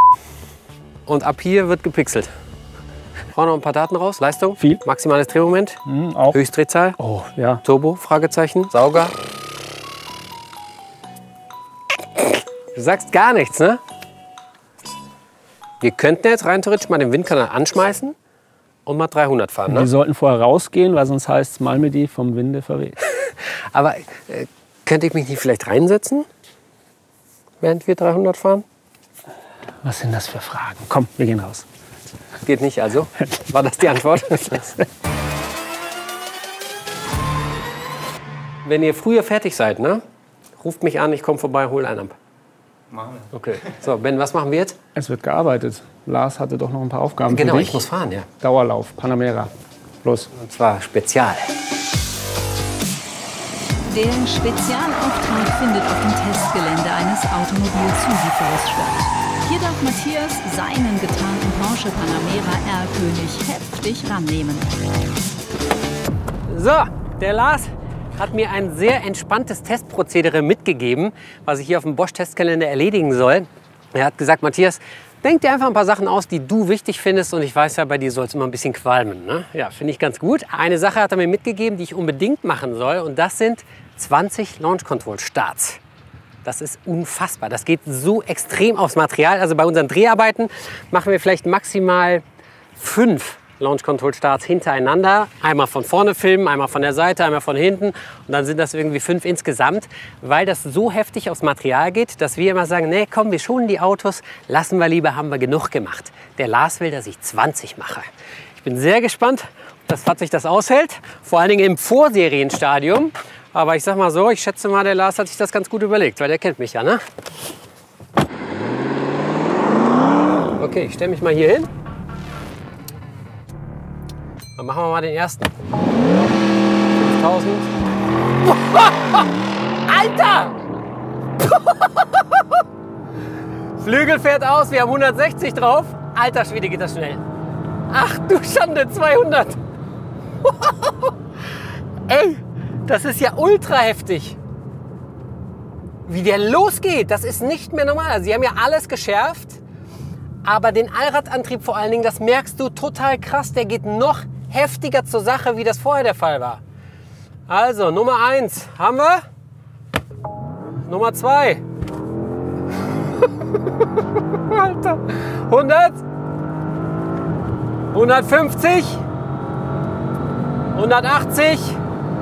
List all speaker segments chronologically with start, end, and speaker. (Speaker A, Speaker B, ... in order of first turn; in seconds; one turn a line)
Speaker A: 1.1-2.3
Speaker A: 3.3-5.8
Speaker B: 5.9-6.4
Speaker A: 6.3-7.0
Speaker B: 7.0-7.6
Speaker A: 7.6-9.1
Speaker A: 12.7-13.8
Speaker A: 15.8-18.1
Speaker A: 18.9-19.9
Speaker B: 19.7-22.9
Speaker A: 23.3-26.3
Speaker A: 27.6-28.6
Speaker B: 29.8-31.6
Speaker A: 32.5-34.7
Speaker B: 34.5-34.8
Speaker A: 38.6-40.0
Speaker A: 40.6-42.1
Speaker A: 43.2-44.8
Speaker B: 44.9-47.8
Speaker A: 47.3-48.3
Speaker B: 48.4-49.5
Speaker B: 50.0-50.3
Speaker A: 50.3-51.5
Speaker C: 53.9-64.7
Speaker A: 66.5-85.8
Speaker A: 86.4-92.2
Speaker A: 92.8-108.0
Speaker A: 108.6-117.0
Speaker A: 120.6-121.7
Speaker A: 124.6-125.5
Speaker A: 126.9-127.7
Speaker A: 128.4-129.3
Speaker A: 129.9-130.6
Speaker A: 131.4-132.6
Speaker A: 133.8-137.2
Speaker A: 137.9-139.6
Speaker A: 140.4-141.1
Speaker A: 142.1-144.4
Speaker A: 146.1-149.6
Speaker A: 150.4-156.6
Speaker A: 157.5-159.2
Speaker A: 160.8-161.6
Speaker A: 164.3-166.0
Speaker A: 167.9-169.0
Speaker A: 170.7-171.8